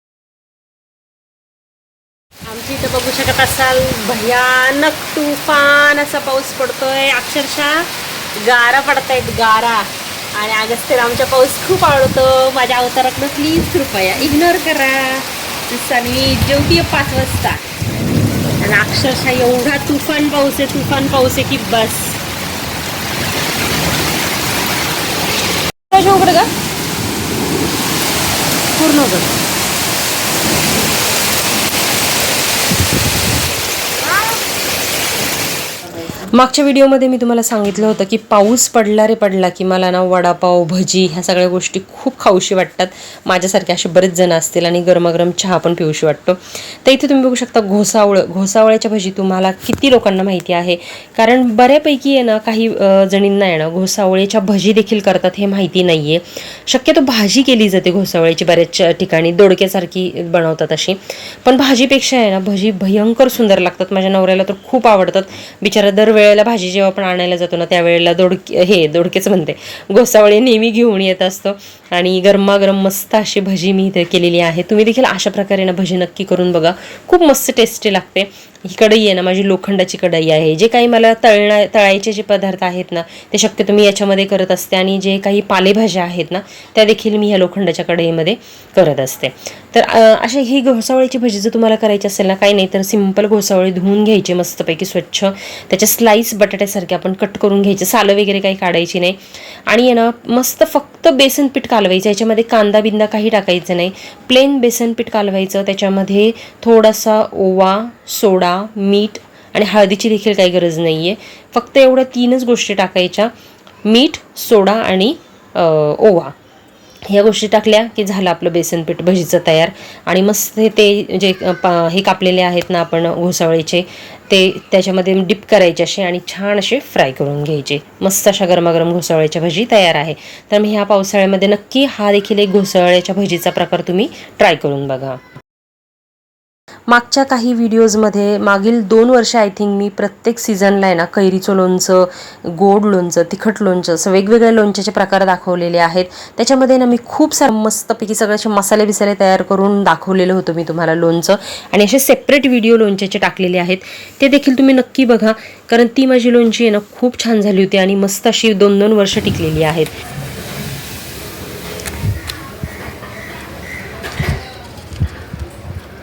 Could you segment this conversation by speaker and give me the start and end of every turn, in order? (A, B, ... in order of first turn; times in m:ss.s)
0:02.5-0:17.6 A
0:18.6-0:22.2 A
0:25.9-0:26.5 A
0:28.8-0:29.4 A
0:36.2-1:53.3 A
1:53.8-1:56.3 A
1:57.1-2:15.2 A
2:16.9-2:39.9 A